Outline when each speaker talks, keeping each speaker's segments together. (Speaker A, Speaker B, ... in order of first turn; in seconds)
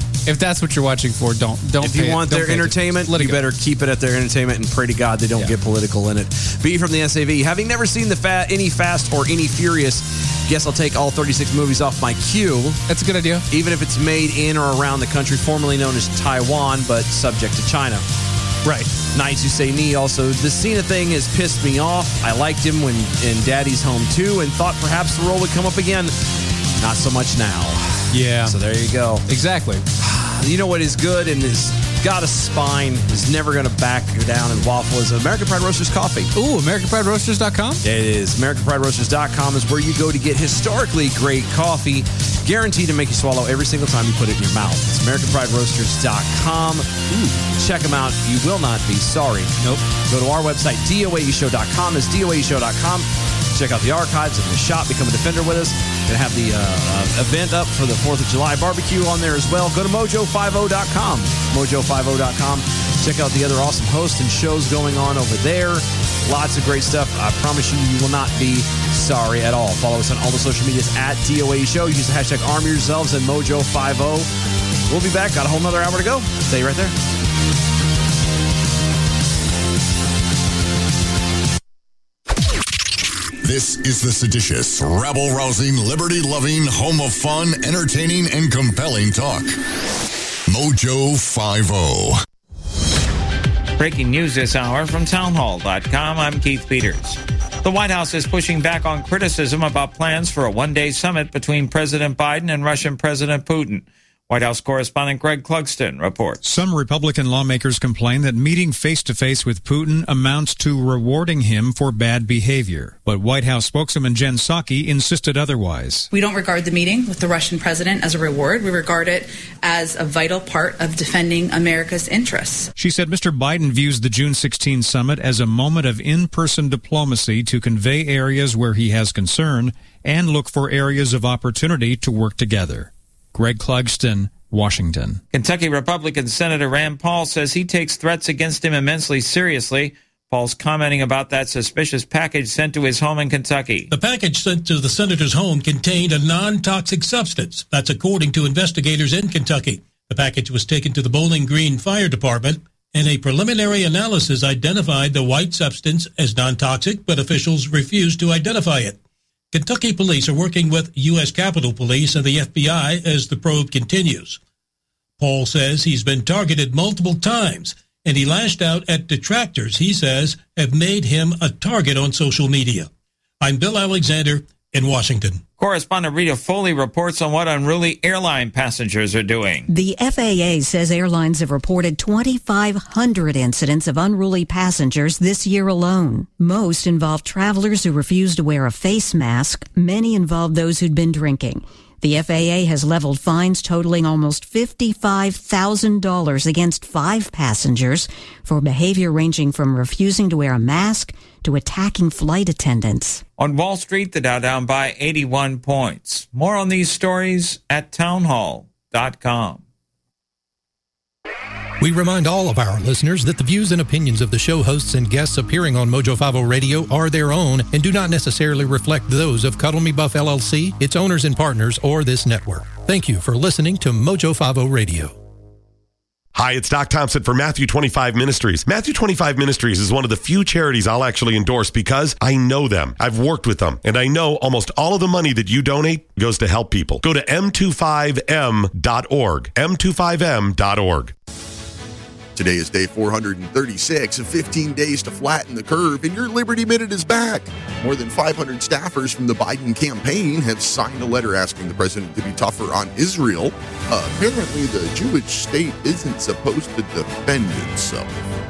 Speaker A: 0.3-3.4, 12.9-13.5, 18.6-18.9, 28.1-28.6, 29.3-29.9, 36.4-37.8
Speaker B: 1.8-12.8, 13.5-18.1, 19.1-26.2, 26.8-29.3, 30.0-36.3, 37.8-74.3, 74.9-77.0
Speaker C: 83.4-89.6, 90.5-92.2
Speaker D: 93.8-106.4, 135.3-143.9, 175.6-179.7, 203.4-209.6
Speaker E: 106.4-116.1, 122.8-135.2
Speaker F: 116.1-122.7
Speaker G: 143.9-159.0, 159.5-164.4, 165.2-172.9, 173.4-175.4
Speaker H: 179.7-203.2
Speaker I: 211.8-225.2
Speaker J: 226.3-241.1
Speaker K: 242.4-258.1